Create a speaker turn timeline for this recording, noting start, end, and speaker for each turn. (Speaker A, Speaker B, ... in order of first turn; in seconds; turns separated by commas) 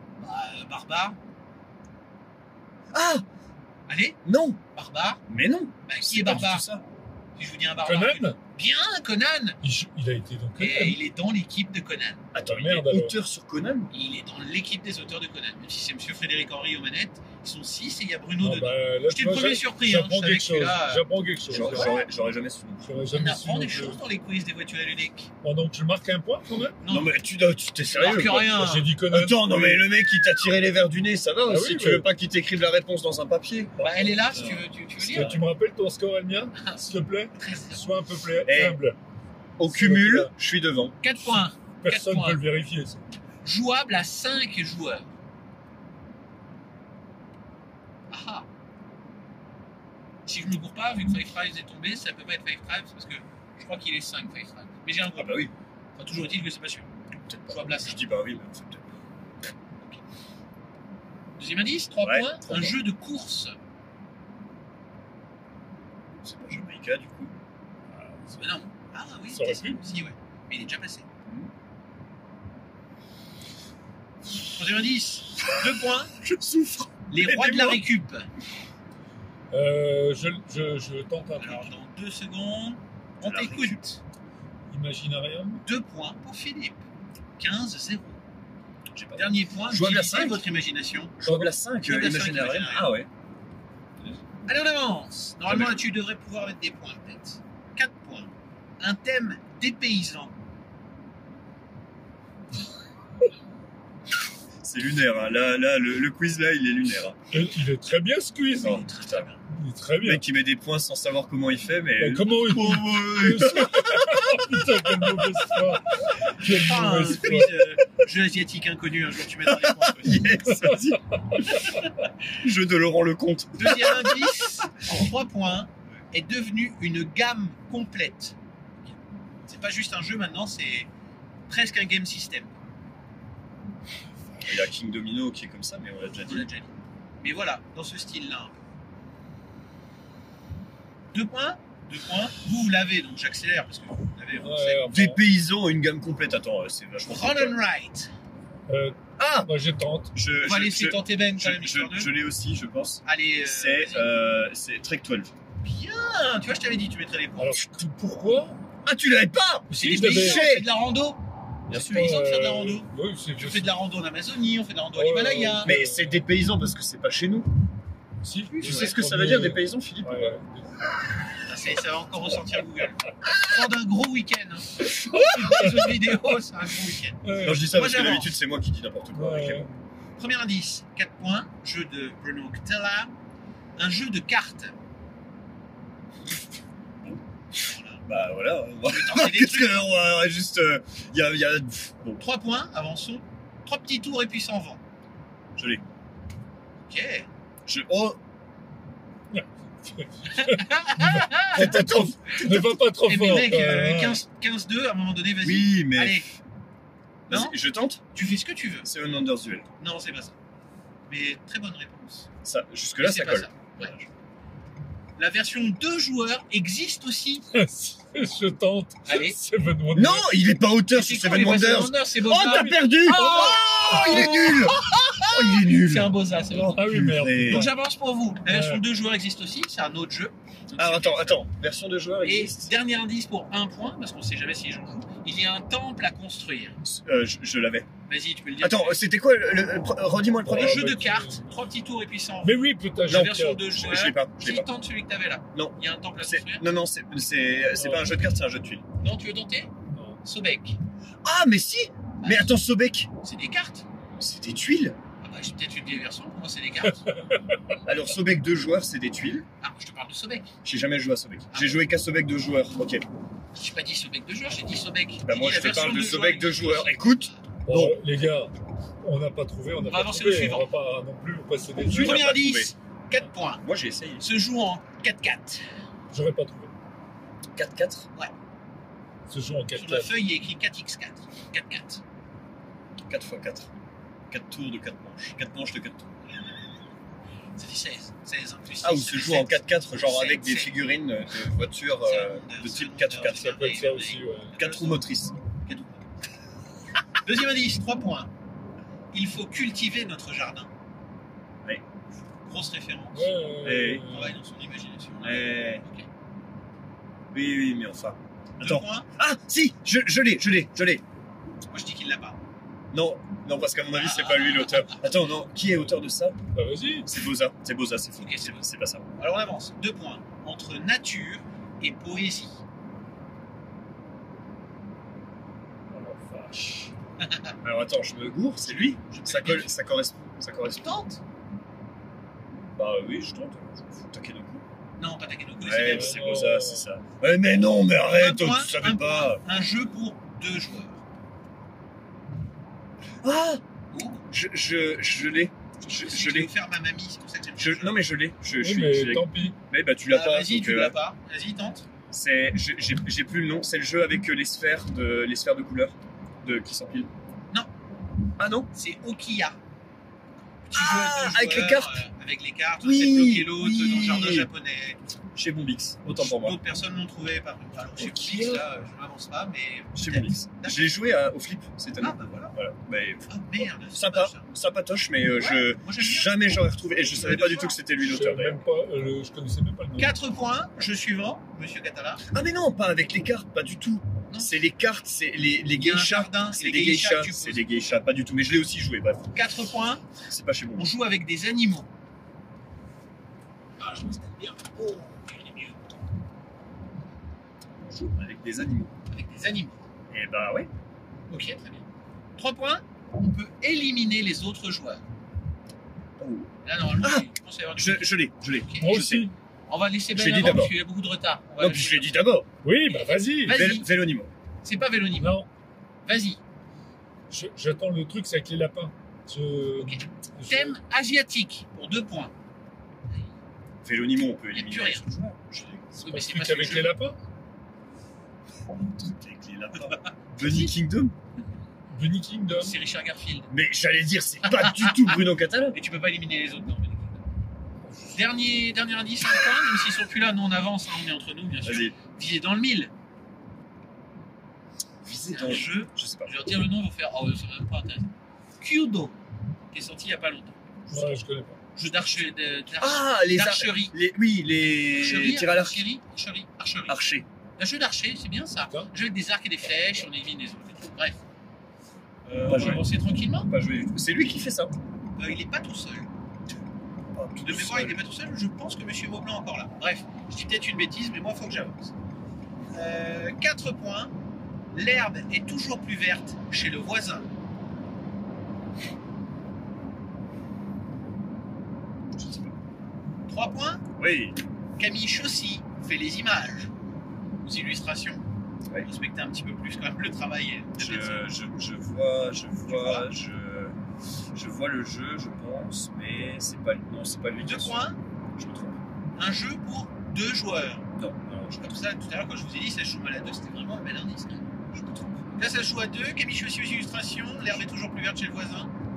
Speaker A: 0.2-1.2, Speaker B: 2.9-3.2, Speaker A: 3.9-4.2, Speaker B: 4.2-4.6, Speaker A: 4.7-5.2, Speaker B: 5.3-6.8, Speaker A: 5.8-6.7, Speaker A: 7.3-9.6, Speaker C: 7.8-8.4, Speaker C: 9.6-11.0, Speaker A: 10.6-12.2, Speaker B: 12.3-13.9, Speaker C: 12.4-13.1, Speaker A: 13.9-22.0, Speaker C: 18.4-21.9, Speaker B: 21.5-22.9, Speaker C: 22.8-24.0, Speaker A: 23.1-25.3, Speaker C: 25.4-26.8, Speaker A: 26.8-27.1, Speaker B: 26.9-34.2, Speaker A: 27.9-28.9, Speaker C: 28.5-29.9, Speaker C: 31.5-32.1, Speaker A: 33.8-35.4, Speaker C: 34.2-39.0, Speaker B: 35.1-35.4, Speaker A: 37.4-37.9, Speaker B: 38.5-38.8, Speaker B: 39.6-40.9, Speaker C: 39.7-40.3, Speaker A: 41.0-42.4, Speaker C: 41.2-43.0, Speaker A: 43.4-45.1, Speaker A: 48.1-48.5, Speaker A: 50.2-56.9, Speaker B: 55.1-55.5, Speaker B: 57.2-58.9, Speaker A: 57.5-58.0, Speaker A: 61.4-63.5, Speaker B: 62.0-62.8, Speaker B: 66.2-67.3, Speaker C: 67.9-68.5, Speaker A: 68.4-71.0, Speaker C: 69.3-69.8, Speaker A: 74.5-76.1, Speaker B: 75.4-77.8, Speaker A: 77.1-78.3, Speaker C: 79.5-81.7, Speaker A: 81.4-84.0, Speaker B: 83.2-83.8, Speaker C: 84.7-85.6, Speaker A: 85.6-86.8, Speaker A: 87.4-88.2, Speaker B: 88.9-90.4, Speaker A: 89.1-91.2, Speaker B: 91.2-93.1, Speaker C: 91.2-91.5, Speaker A: 91.8-92.9, Speaker A: 94.5-100.3, Speaker B: 95.5-95.8, Speaker B: 104.6-107.2, Speaker C: 107.3-108.9, Speaker B: 108.6-109.2, Speaker A: 108.6-109.4, Speaker C: 109.5-110.2, Speaker B: 110.0-114.4, Speaker C: 112.0-117.6, Speaker A: 116.4-120.4, Speaker B: 119.5-121.4, Speaker C: 120.5-121.4, Speaker B: 122.4-124.4, Speaker A: 123.6-128.3, Speaker A: 129.4-130.9, Speaker A: 131.5-132.5, Speaker B: 134.4-136.5, Speaker A: 136.3-138.6, Speaker A: 141.1-144.9, Speaker C: 144.4-145.2, Speaker B: 144.9-147.6, Speaker A: 147.1-148.1, Speaker C: 148.7-150.1, Speaker B: 149.2-149.5, Speaker B: 150.1-155.3, Speaker A: 150.4-152.1, Speaker A: 153.0-154.1, Speaker A: 155.6-157.6, Speaker C: 157.4-158.6, Speaker B: 158.8-160.7, Speaker C: 159.7-160.4, Speaker A: 159.7-165.7, Speaker B: 161.7-162.1, Speaker C: 161.7-163.8, Speaker C: 164.9-166.2, Speaker B: 165.6-167.5, Speaker C: 168.2-170.8, Speaker B: 168.6-170.4, Speaker A: 171.4-178.3, Speaker C: 174.9-176.2, Speaker C: 177.2-177.7, Speaker B: 177.4-179.7, Speaker C: 179.1-179.7, Speaker A: 180.2-183.1, Speaker A: 183.8-184.7, Speaker A: 187.6-188.0, Speaker B: 188.1-192.2, Speaker A: 188.8-189.9, Speaker A: 192.2-194.8, Speaker B: 195.6-195.8, Speaker A: 196.9-197.3, Speaker B: 197.7-198.2, Speaker C: 199.3-204.2, Speaker A: 200.3-201.8, Speaker B: 201.5-202.8, Speaker A: 203.0-206.3, Speaker B: 205.4-206.4, Speaker B: 207.3-208.0, Speaker A: 207.3-207.6, Speaker A: 208.1-208.9, Speaker B: 208.8-209.7, Speaker A: 209.8-210.3, Speaker A: 211.1-212.3, Speaker B: 212.4-214.1, Speaker A: 213.0-213.9, Speaker A: 215.2-217.5, Speaker C: 217.5-220.3, Speaker A: 219.1-219.4, Speaker B: 219.9-227.7, Speaker A: 220.9-226.8, Speaker C: 223.0-224.7, Speaker C: 226.7-227.8, Speaker A: 227.5-231.4, Speaker C: 228.4-228.8, Speaker B: 230.8-232.7, Speaker A: 232.2-236.8, Speaker B: 236.8-237.9, Speaker A: 238.1-239.0, Speaker B: 238.6-240.9, Speaker C: 240.4-241.4, Speaker A: 240.5-246.7, Speaker C: 242.4-243.7, Speaker B: 243.1-244.7, Speaker B: 245.5-248.8, Speaker C: 247.8-248.1, Speaker A: 249.0-249.7, Speaker C: 249.9-250.2, Speaker A: 250.2-250.8, Speaker B: 251.2-253.1, Speaker A: 252.2-252.5, Speaker A: 253.2-253.8, Speaker B: 254.2-255.0, Speaker A: 255.2-257.1, Speaker C: 257.1-257.6, Speaker B: 257.9-259.4, Speaker A: 259.6-260.5, Speaker B: 260.6-263.0, Speaker A: 261.5-261.8, Speaker A: 263.5-267.4, Speaker B: 265.2-268.0, Speaker C: 267.6-272.2, Speaker A: 269.9-270.7, Speaker B: 271.9-272.7, Speaker A: 271.9-273.6, Speaker B: 273.6-274.2, Speaker A: 274.2-275.6, Speaker C: 276.1-276.7, Speaker B: 277.5-278.1, Speaker C: 279.3-280.1, Speaker A: 279.7-282.0, Speaker B: 283.1-283.7, Speaker B: 284.3-286.1, Speaker A: 287.6-290.8, Speaker B: 288.8-293.5, Speaker A: 292.0-295.0, Speaker C: 293.2-294.6, Speaker B: 294.6-295.4, Speaker A: 295.6-296.0, Speaker A: 297.2-298.3, Speaker A: 299.1-300.7, Speaker A: 302.4-303.4, Speaker C: 303.1-304.4, Speaker B: 303.6-304.1, Speaker A: 303.9-306.1, Speaker B: 305.2-305.8, Speaker B: 307.3-311.0, Speaker A: 308.6-309.1, Speaker A: 311.7-312.4, Speaker B: 312.9-316.4, Speaker A: 313.9-315.1, Speaker C: 316.5-317.1, Speaker B: 317.0-319.1, Speaker A: 318.2-318.6, Speaker A: 319.1-322.6, Speaker C: 325.9-326.9, Speaker A: 327.2-327.5, Speaker B: 327.6-331.0, Speaker A: 328.6-329.7, Speaker A: 330.8-331.2, Speaker B: 332.8-334.6, Speaker A: 335.0-336.2, Speaker B: 335.6-339.4, Speaker C: 335.8-336.9, Speaker A: 338.1-341.0, Speaker B: 343.2-343.6, Speaker A: 343.9-344.3, Speaker B: 344.3-346.5, Speaker A: 345.8-348.0, Speaker B: 347.6-350.9, Speaker C: 348.6-349.6, Speaker A: 350.1-351.8, Speaker B: 352.1-357.1, Speaker B: 358.4-358.7, Speaker A: 358.7-359.6, Speaker A: 360.6-365.0, Speaker B: 360.7-362.0, Speaker B: 362.8-364.5, Speaker B: 365.3-366.6, Speaker A: 366.2-370.9, Speaker B: 368.0-368.7, Speaker B: 369.9-378.6, Speaker A: 372.0-372.5, Speaker A: 373.3-374.5, Speaker A: 375.3-376.4, Speaker A: 377.0-377.8, Speaker C: 378.0-380.2, Speaker A: 380.0-382.2, Speaker B: 382.3-389.3, Speaker A: 384.3-384.6, Speaker A: 385.7-387.7, Speaker A: 389.3-390.0, Speaker B: 390.3-390.9, Speaker A: 390.8-391.9, Speaker A: 393.8-395.8, Speaker B: 397.8-398.9, Speaker A: 399.1-399.8, Speaker B: 400.1-400.7, Speaker A: 401.3-401.8, Speaker A: 402.4-405.0, Speaker B: 406.2-409.3, Speaker A: 406.6-409.0, Speaker C: 408.8-409.3, Speaker A: 409.7-412.2, Speaker B: 410.1-410.7, Speaker B: 411.6-412.5, Speaker C: 412.6-413.6, Speaker A: 412.9-413.9, Speaker B: 413.5-414.3, Speaker A: 414.6-415.4, Speaker C: 415.2-415.5, Speaker A: 416.1-416.4, Speaker C: 417.3-420.8, Speaker A: 419.8-422.3, Speaker B: 423.8-425.9, Speaker A: 424.5-425.0, Speaker A: 426.0-426.9, Speaker C: 426.0-427.2, Speaker B: 428.7-431.1, Speaker A: 430.0-430.7, Speaker C: 431.9-432.8, Speaker A: 432.5-433.5, Speaker B: 433.5-435.8, Speaker A: 434.4-435.2, Speaker A: 435.7-437.2, Speaker C: 437.8-438.3, Speaker A: 438.1-442.9, Speaker B: 441.6-441.9, Speaker B: 445.0-446.4, Speaker A: 445.3-449.2, Speaker A: 449.7-450.5, Speaker B: 450.9-451.1, Speaker C: 450.9-451.6, Speaker A: 451.8-453.9, Speaker B: 452.8-455.9, Speaker A: 454.9-457.0, Speaker B: 456.9-457.2, Speaker A: 457.6-461.2, Speaker A: 462.3-463.5, Speaker B: 462.3-462.9, Speaker B: 463.4-464.7, Speaker A: 465.2-466.1, Speaker B: 467.1-468.0, Speaker A: 467.4-471.9, Speaker A: 472.7-474.1, Speaker A: 474.7-477.3, Speaker B: 482.1-482.5, Speaker A: 483.3-483.8, Speaker B: 484.0-484.4, Speaker A: 484.8-486.7, Speaker A: 487.4-488.2, Speaker A: 488.8-491.3, Speaker B: 490.8-493.7, Speaker A: 492.6-493.1, Speaker B: 494.3-498.8, Speaker A: 497.4-498.0, Speaker A: 499.2-500.9, Speaker B: 500.9-501.8, Speaker A: 501.6-504.4, Speaker B: 504.7-505.3, Speaker A: 505.4-508.7